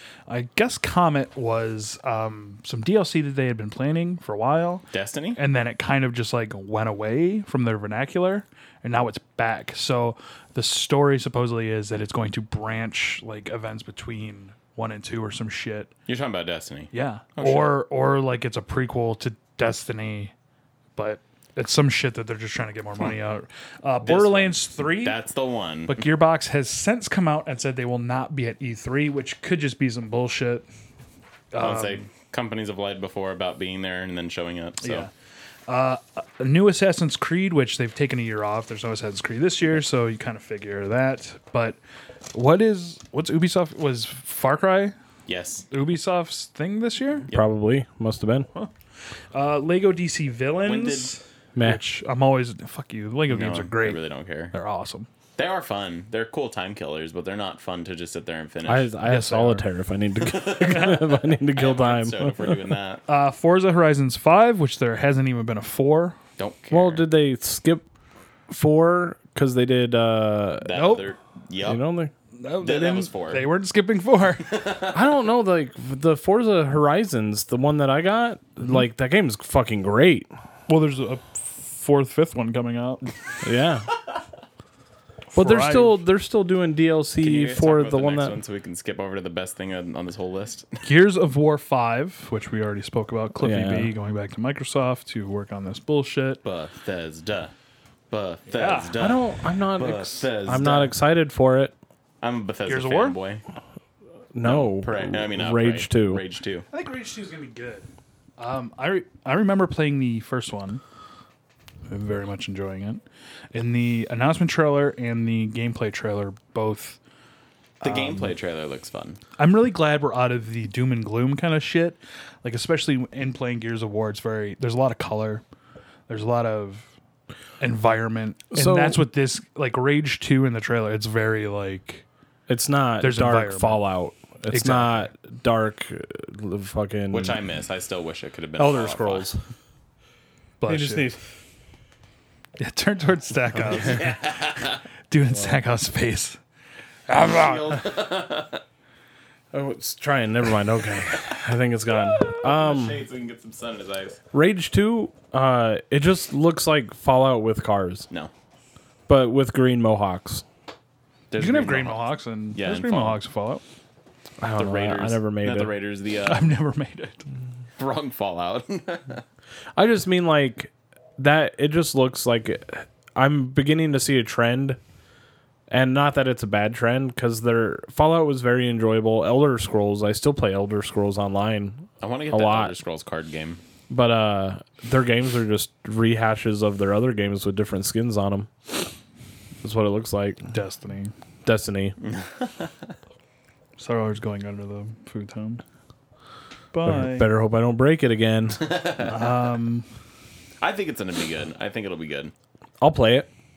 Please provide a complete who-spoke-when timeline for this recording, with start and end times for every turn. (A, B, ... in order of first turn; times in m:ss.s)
0:00.3-0:04.8 A
0:04.9-0:05.4 B
0:05.4-0:15.9 A
0:16.1-0:17.8 B
0:16.9-0:20.3 A
0:21.0-0:25.2 A
0:24.0-0:26.1 B
0:25.9-0:30.7 A
0:31.5-0:32.0 A
0:31.6-0:35.1 B
0:34.8-0:35.1 A
0:35.7-0:41.8 A
0:42.3-0:44.9 A
0:45.3-0:45.6 B
0:45.7-0:47.3 A
0:47.3-0:48.5 C
0:49.3-0:55.1 A
0:50.6-0:51.2 B
0:51.5-0:51.8 C
0:53.3-0:54.5 B
0:55.4-0:58.9 B
0:58.6-1:02.7 C
0:59.0-0:59.6 A
1:00.2-1:03.0 B
1:03.1-1:06.2 A
1:06.4-1:07.0 B
1:06.7-1:07.8 C
1:08.5-1:10.8 C
1:10.6-1:11.8 B
1:10.7-1:11.1 A
1:11.6-1:12.1 C
1:12.4-1:14.6 A
1:12.6-1:13.5 B
1:14.4-1:15.0 B
1:14.9-1:20.3 C
1:20.7-1:23.0 A
1:23.4-1:23.9 C
1:25.3-1:26.0 A
1:25.3-1:28.4 C
1:27.2-1:30.8 B
1:30.8-1:36.4 A
1:33.4-1:33.9 C
1:36.4-1:37.5 B
1:38.1-1:40.9 B
1:38.5-1:38.9 A
1:39.0-1:41.7 C
1:42.2-1:43.4 B
1:42.6-1:43.2 A
1:44.3-1:46.2 C
1:44.4-1:46.6 B
1:46.7-1:47.9 A
1:48.4-1:50.8 A
1:51.9-1:53.0 A
1:53.5-1:57.0 A
1:57.8-1:58.3 A
1:57.8-1:59.2 B
1:59.4-2:05.4 A
2:06.1-2:06.9 A
2:07.6-2:12.0 A
2:08.5-2:09.0 C
2:12.5-2:17.4 C
2:13.0-2:13.8 A
2:14.5-2:15.1 A
2:17.1-2:19.3 B
2:18.6-2:19.4 C
2:20.6-2:21.1 A
2:20.7-2:21.2 C
2:22.6-2:24.6 A
2:23.7-2:24.8 B
2:25.1-2:26.4 A
2:27.1-2:27.7 A
2:27.1-2:28.6 B
2:29.5-2:33.0 C
2:31.1-2:31.4 B
2:32.0-2:34.2 B
2:34.3-2:38.1 C
2:39.1-2:40.4 C
2:41.3-2:43.2 B
2:41.4-2:43.6 A
2:44.4-2:45.7 C
2:44.6-2:46.6 B
2:46.2-2:47.2 A
2:47.8-2:49.2 B
2:49.8-2:54.8 C
2:55.7-3:02.7 C
3:02.0-3:03.6 B
3:03.9-3:08.7 C
3:09.6-3:10.4 C
3:10.5-3:11.1 A
3:11.4-3:12.0 C
3:12.0-3:12.8 B
3:13.8-3:15.6 A
3:16.7-3:17.3 A
3:16.8-3:18.7 C
3:18.6-3:19.4 B
3:19.0-3:19.9 A
3:20.6-3:22.3 B
3:22.8-3:23.3 C